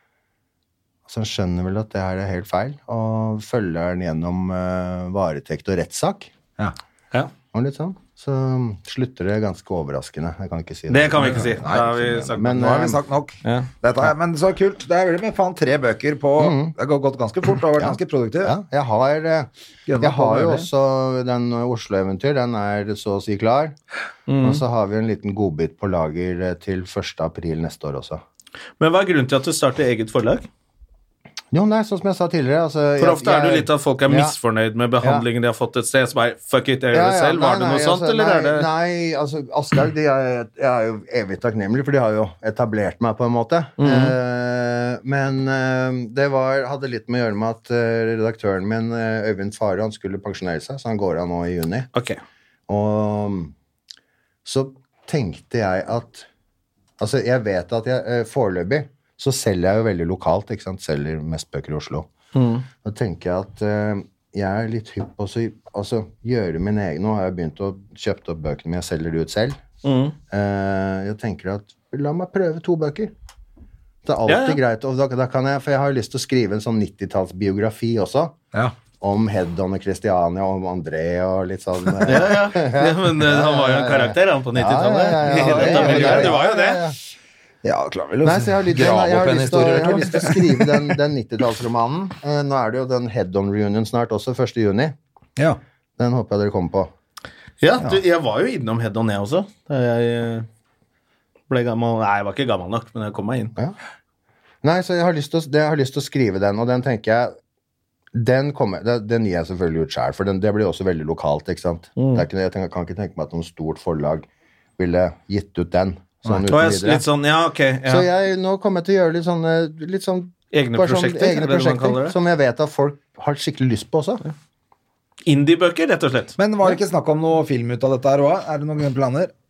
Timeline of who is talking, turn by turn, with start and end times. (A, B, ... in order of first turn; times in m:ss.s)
0:01.1-0:06.3 A
0:07.5-0:13.0 A
0:10.9-0:12.5 B
0:11.2-0:18.5 C
0:13.4-0:13.7 B
0:16.4-0:16.7 A
0:17.8-0:23.8 A
0:19.9-0:20.7 C
0:24.3-0:24.6 B
0:24.4-0:28.2 A
0:28.8-0:30.5 B
0:31.5-0:34.3 A
0:33.0-0:38.6 B
0:36.9-0:51.9 A
0:43.8-0:44.1 B
0:51.9-0:52.2 B
0:52.7-0:53.5 A
0:54.4-0:56.3 A
0:57.0-1:02.1 A
1:02.3-1:02.6 B
1:02.8-1:09.6 A
1:09.8-1:10.1 B
1:10.3-1:13.1 A
1:14.0-1:18.3 A
1:14.3-1:14.6 B
1:19.0-1:27.0 A
1:22.1-1:26.8 B
1:25.2-1:26.4 C
1:27.6-1:31.0 C
1:28.2-1:34.9 A
1:36.0-1:36.9 A
1:37.6-1:40.5 B
1:41.5-1:43.5 B
1:44.6-1:47.3 A
1:48.1-1:54.2 A
1:52.0-1:52.2 B
1:54.8-1:57.0 A
1:56.5-1:58.1 B
1:57.9-2:04.2 A
2:00.5-2:02.2 B
2:05.2-2:06.4 B
2:06.4-2:09.3 C